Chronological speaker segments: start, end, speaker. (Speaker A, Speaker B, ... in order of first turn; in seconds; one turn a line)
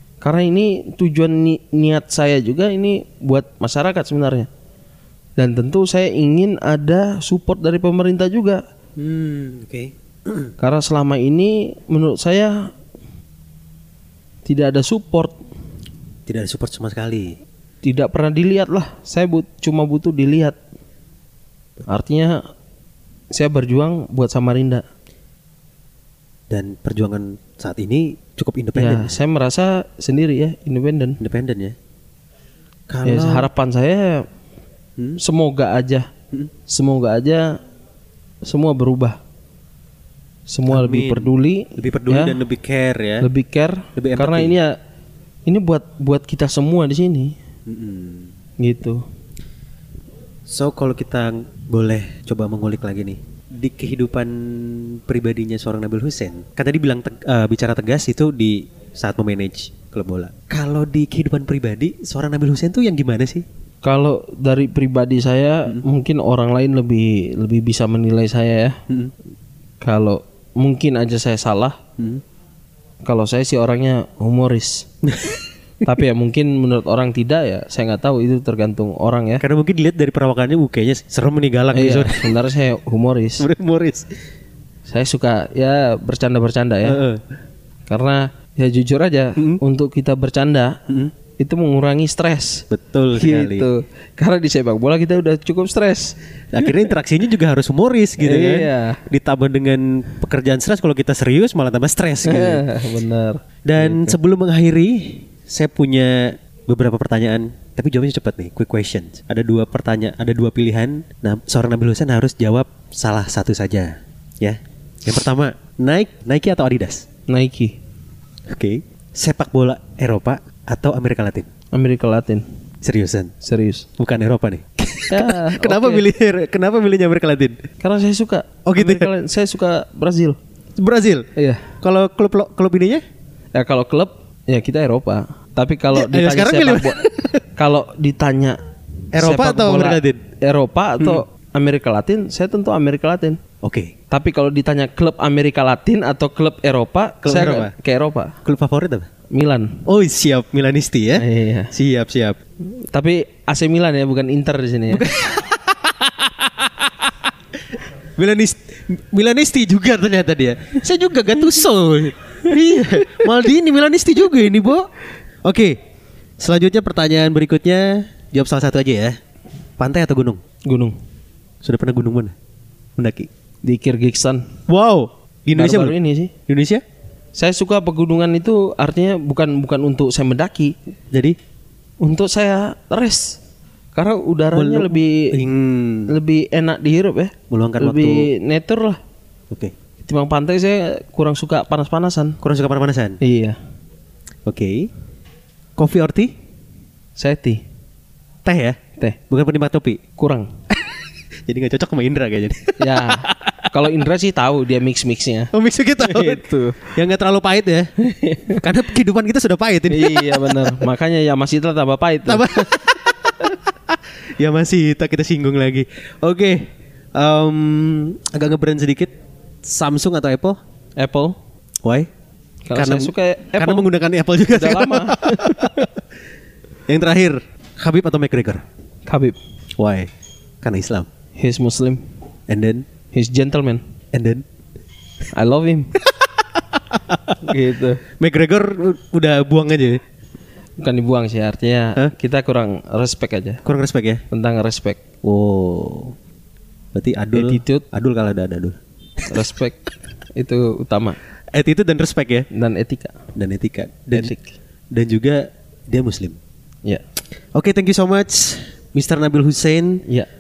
Speaker A: 0.2-4.5
Speaker A: 5.4-8.6
Speaker B: 9.0-10.5
Speaker A: 10.6-12.7
Speaker A: 14.4-15.4
Speaker B: 16.3-17.4
Speaker A: 17.8-20.6
Speaker A: 21.9-22.4
Speaker A: 23.3-24.9
Speaker B: 26.5-29.1
Speaker A: 28.8-31.2
Speaker B: 31.2-31.8
Speaker B: 32.9-33.5
Speaker A: 33.0-34.3
Speaker A: 35.2-36.1
Speaker A: 36.7-37.6
Speaker A: 38.4-39.2
Speaker A: 40.5-42.4
Speaker B: 40.7-43.3
Speaker A: 43.2-44.7
Speaker B: 44.0-44.6
Speaker A: 45.5-47.4
Speaker B: 47.7-48.3
Speaker A: 48.6-49.0
Speaker B: 50.5-63.4
Speaker A: 63.8-68.8
Speaker A: 69.8-71.8
Speaker A: 73.0-74.9
Speaker B: 75.0-75.4
Speaker A: 75.8-79.4
Speaker B: 79.4-82.3
Speaker A: 81.7-83.5
Speaker B: 83.4-84.1
Speaker A: 84.9-87.0
Speaker B: 86.8-87.2
Speaker A: 87.9-96.8
Speaker B: 92.7-93.7
Speaker B: 96.5-102.7
Speaker A: 98.2-99.0
Speaker A: 102.2-104.2
Speaker B: 103.7-117.0
Speaker A: 117.3-117.8
Speaker B: 118.5-121.5
Speaker A: 121.7-122.4
Speaker B: 122.8-123.3
Speaker A: 123.4-123.9
Speaker B: 124.0-127.6
Speaker A: 125.1-126.0
Speaker A: 127.8-130.4
Speaker B: 128.7-129.1
Speaker B: 130.8-131.3
Speaker A: 131.3-131.7
Speaker B: 131.8-133.0
Speaker A: 133.5-138.6
Speaker B: 135.9-137.4
Speaker B: 139.1-140.2
Speaker A: 139.2-143.4
Speaker B: 143.6-143.9
Speaker A: 144.1-148.3
Speaker B: 147.2-147.7
Speaker B: 148.4-149.1
Speaker A: 149.3-149.8
Speaker B: 149.8-152.4
Speaker A: 151.2-151.7
Speaker A: 152.7-155.1
Speaker B: 154.9-157.1
Speaker B: 157.7-164.9
Speaker B: 165.4-165.8
Speaker B: 166.4-169.2
Speaker B: 169.8-170.4
Speaker A: 170.7-171.0
Speaker B: 171.6-172.3
Speaker B: 173.0-173.3
Speaker A: 173.6-174.5
Speaker B: 174.7-175.9
Speaker A: 175.5-176.3
Speaker B: 176.5-176.8
Speaker A: 177.3-180.7
Speaker A: 182.0-183.4
Speaker A: 183.9-185.4
Speaker B: 184.5-186.1
Speaker A: 186.1-189.0
Speaker B: 187.5-188.3
Speaker A: 190.0-192.4
Speaker B: 192.4-193.2
Speaker A: 193.2-193.6
Speaker B: 194.4-194.9
Speaker B: 195.8-196.3
Speaker A: 197.2-197.6
Speaker B: 198.4-200.0
Speaker A: 200.2-200.5
Speaker B: 200.7-203.7
Speaker A: 202.8-206.9
Speaker B: 205.5-207.9
Speaker A: 208.0-208.6
Speaker B: 208.5-210.8
Speaker A: 209.9-212.9
Speaker B: 212.2-219.1
Speaker B: 219.6-220.6
Speaker A: 221.0-221.3
Speaker A: 222.7-223.9
Speaker B: 222.7-225.9
Speaker A: 224.5-225.9
Speaker B: 226.9-228.6
Speaker A: 229.1-229.4
Speaker B: 229.8-230.1
Speaker B: 230.6-231.1
Speaker A: 231.4-232.0
Speaker B: 232.5-232.9
Speaker A: 233.1-233.8
Speaker B: 234.1-234.4
Speaker A: 235.3-236.0
Speaker B: 236.2-237.4
Speaker A: 237.4-238.0
Speaker B: 238.2-240.0
Speaker A: 240.8-243.6
Speaker B: 243.6-244.2
Speaker A: 244.3-245.0
Speaker B: 245.2-246.1
Speaker B: 246.9-249.2
Speaker A: 247.3-247.8
Speaker A: 249.3-251.2
Speaker B: 251.5-252.5
Speaker A: 252.5-253.2
Speaker B: 253.3-254.3
Speaker A: 254.1-254.5
Speaker B: 254.9-256.4
Speaker B: 257.5-260.0